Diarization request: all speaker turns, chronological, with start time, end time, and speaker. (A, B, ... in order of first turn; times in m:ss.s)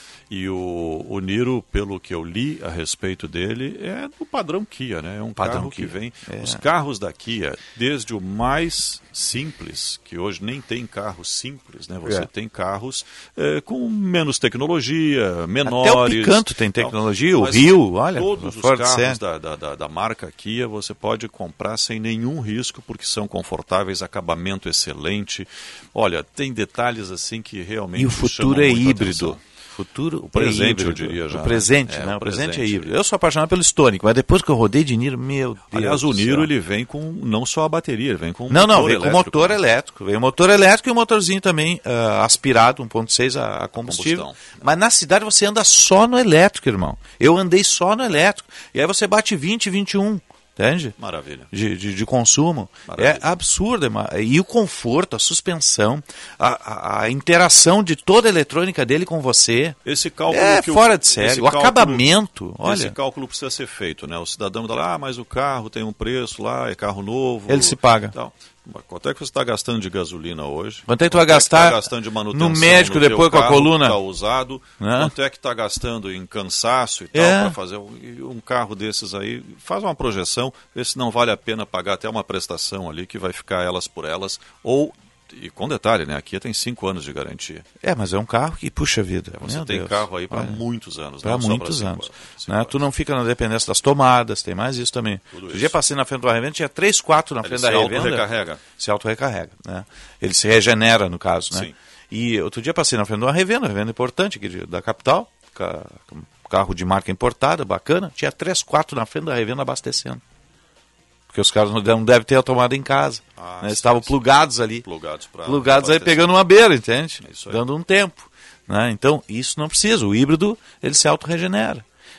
0:00.3-0:29.4 A
0:05.4-0:06.6 B
0:15.6-0:19.2 B
0:28.0-0:36.5 B
0:30.3-0:32.9 A
0:35.7-0:39.6 A
0:38.5-0:50.9 B
0:43.8-0:44.6 A
0:51.0-0:51.5 A
0:51.5-0:59.8 B
0:52.9-0:53.2 A
0:59.8-1:02.1 A
1:00.3-1:02.9 B
1:02.6-1:27.6 A
1:07.5-1:08.1 B
1:10.9-1:11.8 B
1:12.3-1:14.0 B
1:14.8-1:15.1 B
1:17.1-1:17.5 B
1:27.8-1:30.6 B
1:29.4-1:32.8 A
1:31.2-1:38.2 B
1:35.3-1:35.8 A
1:37.4-1:38.6 A
1:38.8-1:50.2 B
1:51.3-1:54.8 B
1:53.4-1:54.2 A
1:54.8-1:56.4 A
1:55.4-2:01.8 B
1:57.2-1:57.6 A